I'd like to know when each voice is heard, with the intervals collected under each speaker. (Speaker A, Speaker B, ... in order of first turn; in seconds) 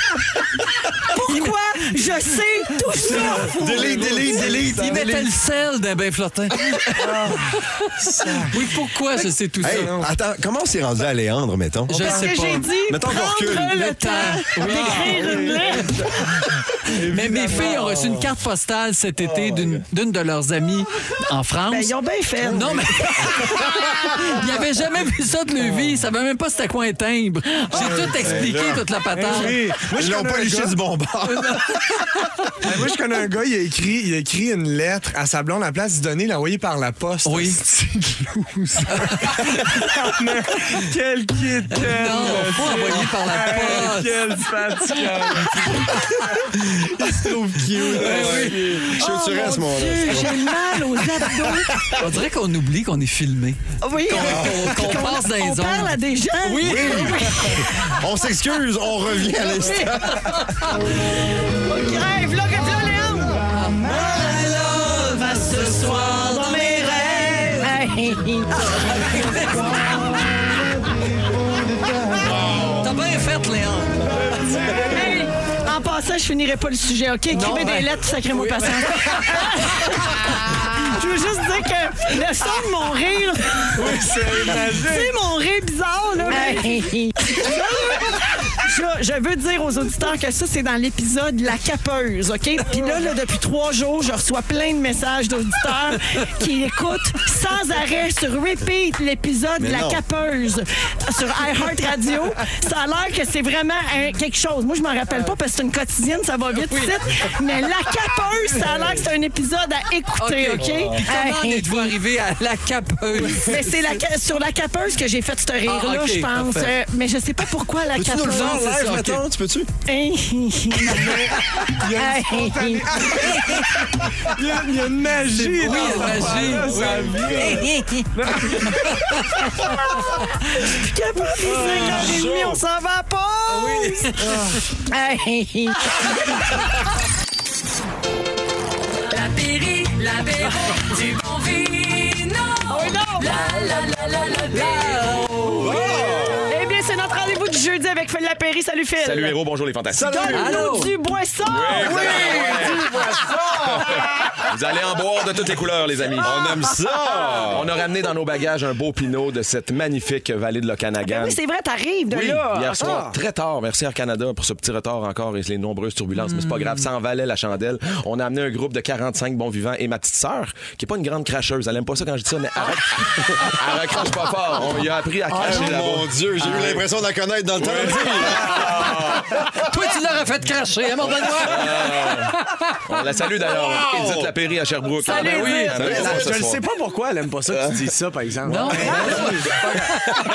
Speaker A: 1.0-4.6, 12.0-16.0, 21.7-24.2, 49.0-52.0, 53.8-57.9, 59.5-59.9, 60.8-70.2, 74.8-111.9, 113.3-118.8, 119.8-121.2, 121.8-123.8, 127.4-136.2, 142.7-143.5, 146.5-149.3, 150.0-152.6, 161.0-163.0
Speaker B: 3.0-5.3, 9.6-13.9, 17.6-18.2, 19.2-19.8, 27.8-31.7, 47.8-50.5, 54.1-54.7, 56.6-60.5, 99.6-100.0, 110.6-110.9, 117.9-119.7, 131.5-132.6, 145.5-146.5, 149.9-150.7, 151.8-154.0, 156.2-157.8, 162.8-163.2, 175.3-179.4, 181.6-182.1, 183.4-184.3, 185.7-186.6, 188.9-189.2
Speaker C: 3.6-4.7, 7.0-8.8, 9.6-10.1, 14.6-16.2, 16.9-17.9, 27.7-28.6, 29.1-30.8, 32.6-46.0, 46.7-49.0, 74.1-75.2, 83.7-85.2, 86.2-86.9, 87.4-87.7, 121.0-129.0, 178.0-179.2, 185.1-190.1
Speaker D: 4.7-7.8, 8.5-10.0, 11.9-12.7, 13.5-15.7, 16.9-29.7, 37.2-37.6, 38.9-39.6, 41.7-44.3, 47.8-48.9, 52.0-57.7, 63.5-66.7, 68.9-70.0, 72.3-74.4, 77.3-80.6, 106.5-107.4, 110.2-114.0, 115.6-116.8, 118.3-119.2, 120.8-121.7, 125.2-127.4, 128.8-129.1, 131.6-132.0, 133.5-134.4, 144.5-146.1, 150.3-150.9, 166.2-166.8, 175.4-175.7, 178.6-183.1, 185.0-186.0, 188.4-190.2
Speaker E: 139.1-145.2
Speaker F: 149.0-150.2, 151.4-153.0, 153.6-156.6, 157.5-161.4, 162.1-176.8, 177.6-178.2, 181.4-182.3, 182.9-186.6, 188.8-189.1